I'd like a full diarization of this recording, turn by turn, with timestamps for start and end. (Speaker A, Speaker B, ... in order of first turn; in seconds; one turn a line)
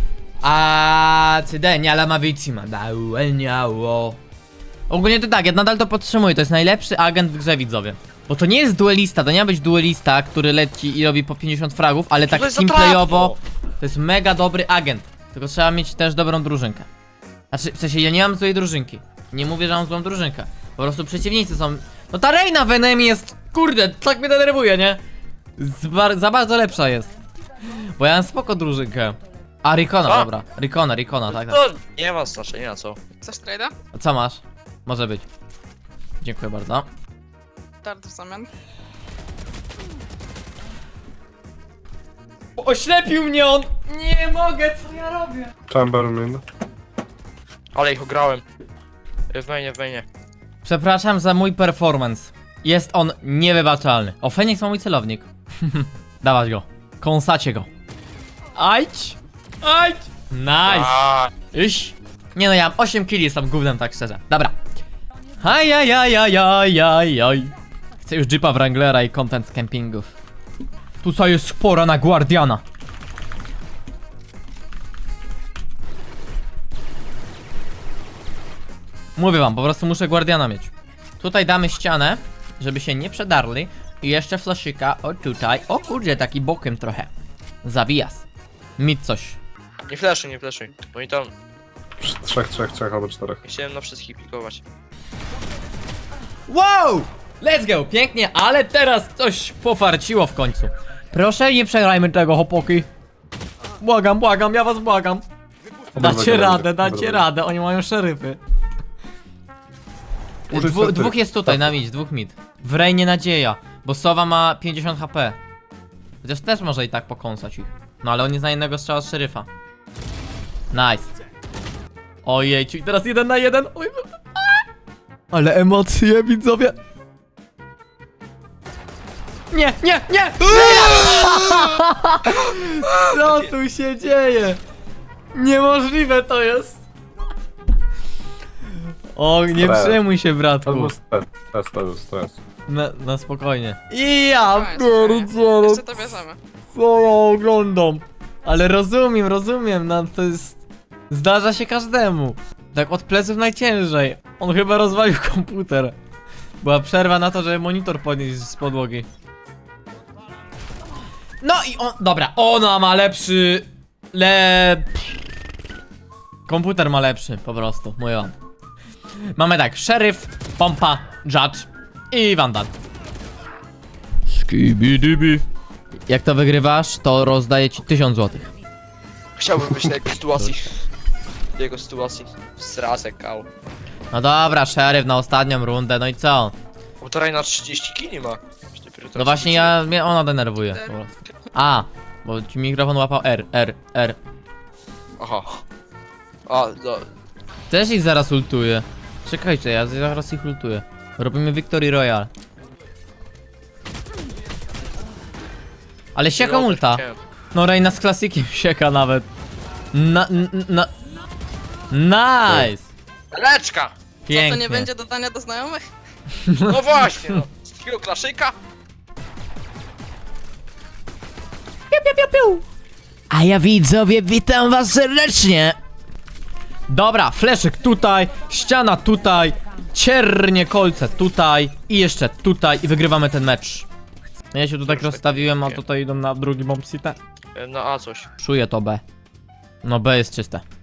Speaker A: 0.4-4.2
Speaker A: 4.9-16.9
Speaker B: 12.3-13.4
Speaker A: 17.5-25.0
Speaker A: 25.6-27.1
Speaker A: 27.6-31.6
Speaker B: 31.3-33.0
Speaker C: 33.2-33.8
Speaker A: 33.9-35.2
Speaker A: 36.2-36.9
Speaker C: 37.8-38.5
Speaker A: 42.6-45.5
Speaker D: 45.7-46.4
Speaker B: 47.7-48.4
Speaker B: 49.3-50.0
Speaker A: 50.6-57.7
Speaker A: 58.6-64.6
Speaker B: 60.7-61.3
Speaker A: 65.4-70.1
Speaker A: 71.0-72.6
Speaker A: 79.2-87.1
Speaker A: 87.6-88.2
Speaker A: 88.8-89.4
Speaker B: 89.9-91.3
Speaker D: 92.0-93.4
Speaker B: 93.5-94.6
Speaker A: 96.5-102.9
Speaker A: 103.8-105.2
Speaker D: 105.9-107.3
Speaker A: 106.0-108.4
Speaker A: 110.5-115.4
Speaker D: 110.5-111.7
Speaker A: 116.2-119.5
Speaker A: 120.7-121.1
Speaker A: 122.2-124.6
Speaker A: 125.3-126.8
Speaker A: 129.5-134.6
Speaker B: 130.6-131.6
Speaker B: 132.9-133.4
Speaker A: 135.3-136.8
Speaker A: 139.2-140.9
Speaker D: 139.6-140.0
Speaker D: 140.7-142.4
Speaker A: 142.7-146.2
Speaker C: 144.4-146.4
Speaker A: 146.7-155.9
Speaker A: 156.6-159.1
Speaker A: 161.4-165.0
Speaker A: 166.5-168.3
Speaker A: 169.3-172.7
Speaker A: 174.3-175.4
Speaker A: 176.1-178.5
Speaker B: 179.4-180.8
Speaker B: 181.6-183.5
Speaker A: 184.1-186.5
Speaker B: 187.0-189.8
Speaker A: 189.2-194.2
Speaker B: 195.2-195.6
Speaker B: 196.5-197.1
Speaker A: 197.7-202.3
Speaker A: 206.2-207.0
Speaker B: 206.4-207.2
Speaker A: 207.5-209.3
Speaker A: 209.9-210.9
Speaker A: 211.9-212.9
Speaker B: 213.3-213.9
Speaker A: 214.3-214.9
Speaker C: 214.3-215.9
Speaker A: 216.3-216.8
Speaker B: 216.6-218.6
Speaker A: 221.9-222.6
Speaker A: 223.3-225.8
Speaker A: 226.9-233.9
Speaker A: 234.5-237.2
Speaker B: 234.8-235.8
Speaker B: 237.6-238.3
Speaker A: 238.4-239.0
Speaker A: 239.8-240.6